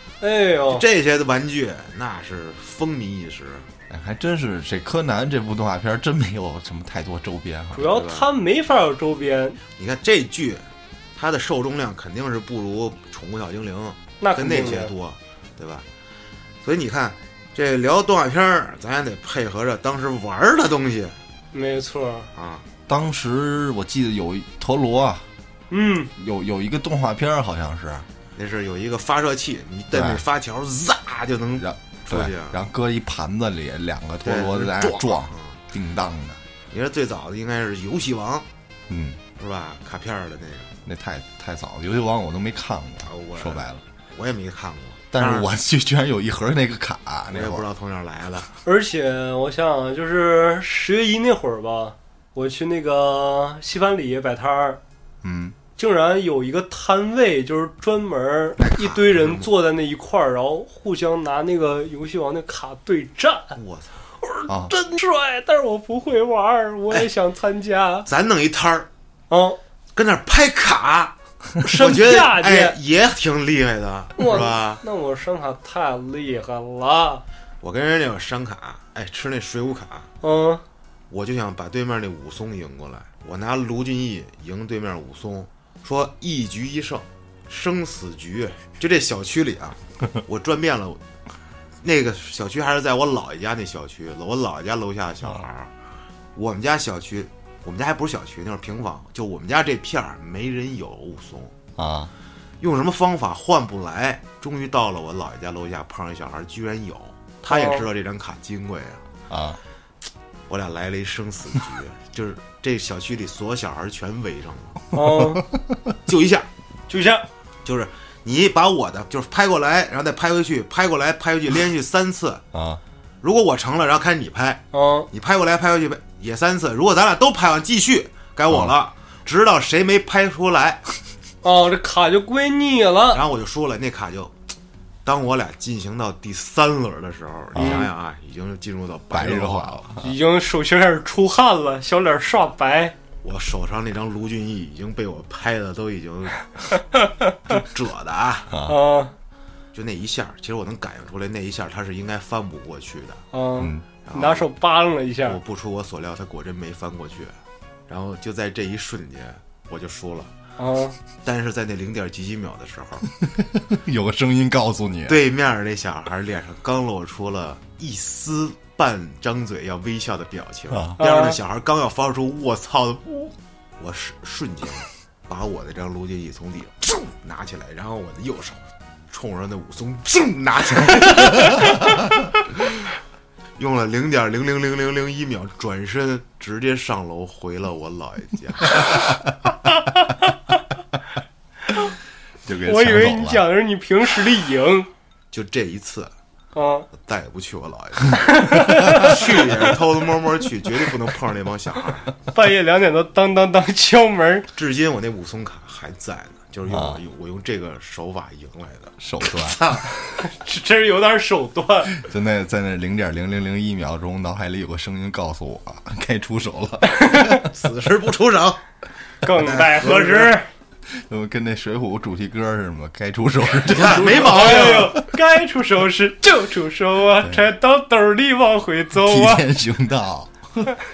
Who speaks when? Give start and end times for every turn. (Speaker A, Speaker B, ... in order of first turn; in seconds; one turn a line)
Speaker A: 0.2-0.8
Speaker B: 0.7-3.7
Speaker C: 3.9-7.9
Speaker A: 7.8-9.6
Speaker B: 7.8-8.3
Speaker B: 9.8-10.7
Speaker B: 11.2-15.9
Speaker A: 14.2-14.9
Speaker B: 16.6-21.2
Speaker A: 21.5-22.3
Speaker B: 22.4-22.6
Speaker C: 22.9-25.3
Speaker A: 25.7-26.1
Speaker C: 26.2-28.1
Speaker B: 28.4-32.6
Speaker C: 29.9-30.2
Speaker C: 31.6-36.4
Speaker B: 34.2-35.6
Speaker B: 36.7-38.5
Speaker C: 38.9-39.2
Speaker B: 39.4-40.8
Speaker C: 40.9-43.8
Speaker B: 43.1-45.5
Speaker C: 45.1-47.7
Speaker B: 47.3-48.5
Speaker A: 48.6-54.8
Speaker C: 55.2-55.6
Speaker A: 55.8-63.5
Speaker B: 58.6-59.5
Speaker B: 63.6-64.0
Speaker A: 64.2-68.1
Speaker B: 68.1-68.9
Speaker A: 69.3-69.6
Speaker B: 70.0-74.8
Speaker A: 71.6-72.8
Speaker A: 74.2-77.2
Speaker B: 77.6-80.1
Speaker A: 80.2-80.6
Speaker B: 81.1-91.0
Speaker B: 91.8-95.7
Speaker B: 96.4-101.6
Speaker C: 101.8-102.1
Speaker B: 102.6-109.0
Speaker A: 107.5-107.9
Speaker C: 109.3-109.6
Speaker B: 110.5-114.8
Speaker A: 114.9-115.4
Speaker B: 116.1-116.5
Speaker A: 116.9-117.2
Speaker B: 117.7-122.4
Speaker C: 122.5-122.8
Speaker B: 123.2-130.8
Speaker A: 124.7-125.1
Speaker C: 128.5-128.7
Speaker A: 131.4-133.2
Speaker B: 133.1-134.3
Speaker B: 135.1-139.9
Speaker C: 137.6-137.9
Speaker A: 137.6-137.9
Speaker C: 139.1-140.1
Speaker A: 140.0-142.9
Speaker B: 143.2-146.5
Speaker A: 147.0-147.3
Speaker B: 147.5-148.5
Speaker C: 148.5-148.8
Speaker A: 148.7-149.1
Speaker B: 149.7-153.2
Speaker A: 153.3-155.4
Speaker C: 153.6-153.9
Speaker B: 154.1-154.5
Speaker B: 155.2-157.3
Speaker B: 157.9-160.3
Speaker A: 160.6-161.0
Speaker B: 161.2-163.1
Speaker C: 163.2-165.2
Speaker B: 165.1-181.9
Speaker C: 170.7-171.0
Speaker A: 171.0-171.4
Speaker B: 183.6-188.9
Speaker C: 192.4-193.4
Speaker A: 192.7-194.9
Speaker B: 195.3-196.1
Speaker A: 196.6-196.9
Speaker B: 196.9-202.1
Speaker A: 198.2-199.3
Speaker A: 202.3-204.5
Speaker B: 204.6-209.9
Speaker C: 206.7-207.0
Speaker C: 209.0-209.6
Speaker A: 210.1-211.9
Speaker C: 211.9-217.5
Speaker A: 216.9-217.4
Speaker B: 217.5-218.6
Speaker A: 219.2-220.5
Speaker B: 219.2-220.3
Speaker C: 220.9-225.0
Speaker B: 223.6-225.0
Speaker A: 224.1-229.4
Speaker C: 227.2-227.5
Speaker C: 229.0-230.7